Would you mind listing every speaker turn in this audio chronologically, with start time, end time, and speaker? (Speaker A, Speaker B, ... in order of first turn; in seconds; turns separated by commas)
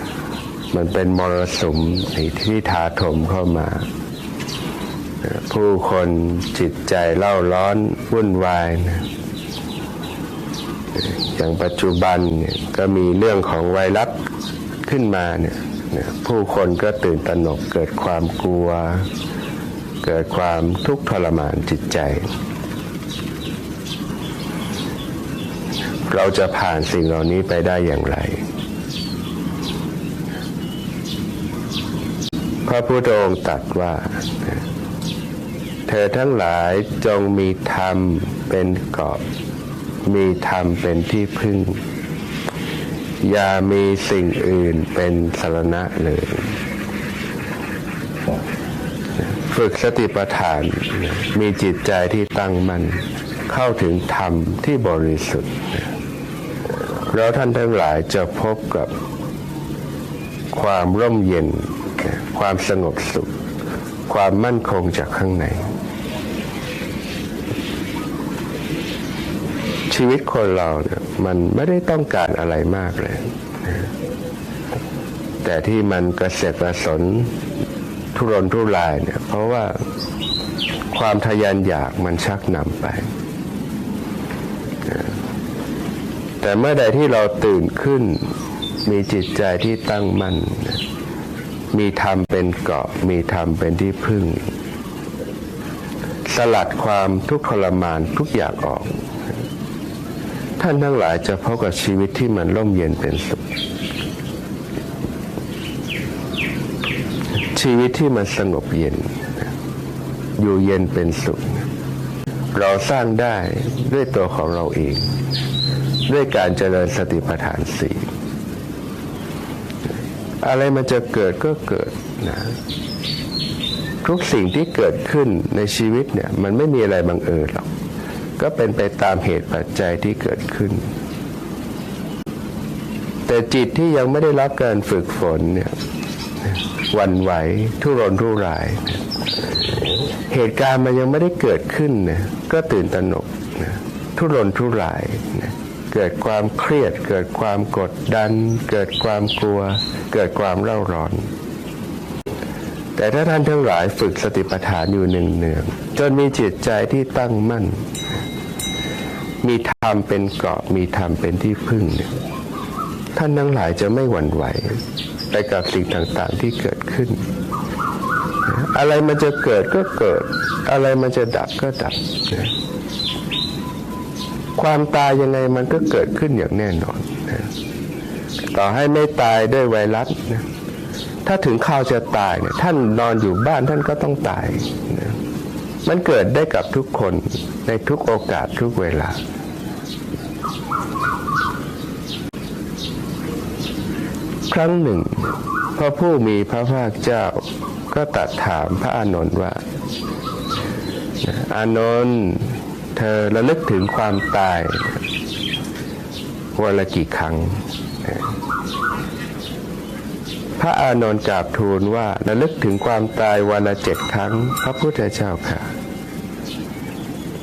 Speaker A: 0.7-3.9, Speaker A: 5.2-9.1, Speaker A: 11.0-14.2, Speaker A: 14.8-19.1, Speaker A: 20.0-22.3, Speaker A: 26.1-28.4, Speaker A: 32.7-34.6, Speaker A: 35.9-39.2, Speaker A: 40.0-41.8, Speaker A: 43.2-46.6, Speaker A: 49.2-55.9, Speaker A: 57.1-58.9, Speaker A: 60.5-63.3, Speaker A: 64.1-65.7, Speaker A: 69.9-73.9, Speaker A: 75.4-77.4, Speaker A: 78.1-79.8, Speaker A: 80.9-83.1, Speaker A: 86.4-88.3, Speaker A: 88.8-90.8, Speaker A: 91.7-94.5, Speaker A: 96.2-99.0, Speaker A: 100.6-103.4, Speaker A: 107.4-109.5, Speaker A: 110.4-111.7, Speaker A: 112.5-115.2, Speaker A: 116.1-118.1, Speaker A: 120.4-122.6, Speaker A: 124.0-127.7, Speaker A: 128.4-130.9, Speaker A: 133.3-135.8, Speaker A: 136.9-139.0, Speaker A: 140.3-151.3, Speaker A: 152.9-157.9, Speaker A: 159.4-162.1, Speaker A: 163.2-167.2, Speaker A: 168.4-172.5, Speaker A: 174.6-177.5, Speaker A: 178.5-180.4, Speaker A: 181.2-185.2, Speaker A: 185.8-189.2, Speaker A: 194.5-195.2, Speaker A: 195.8-199.6, Speaker A: 201.2-205.0, Speaker A: 206.5-208.2, Speaker A: 210.6-215.7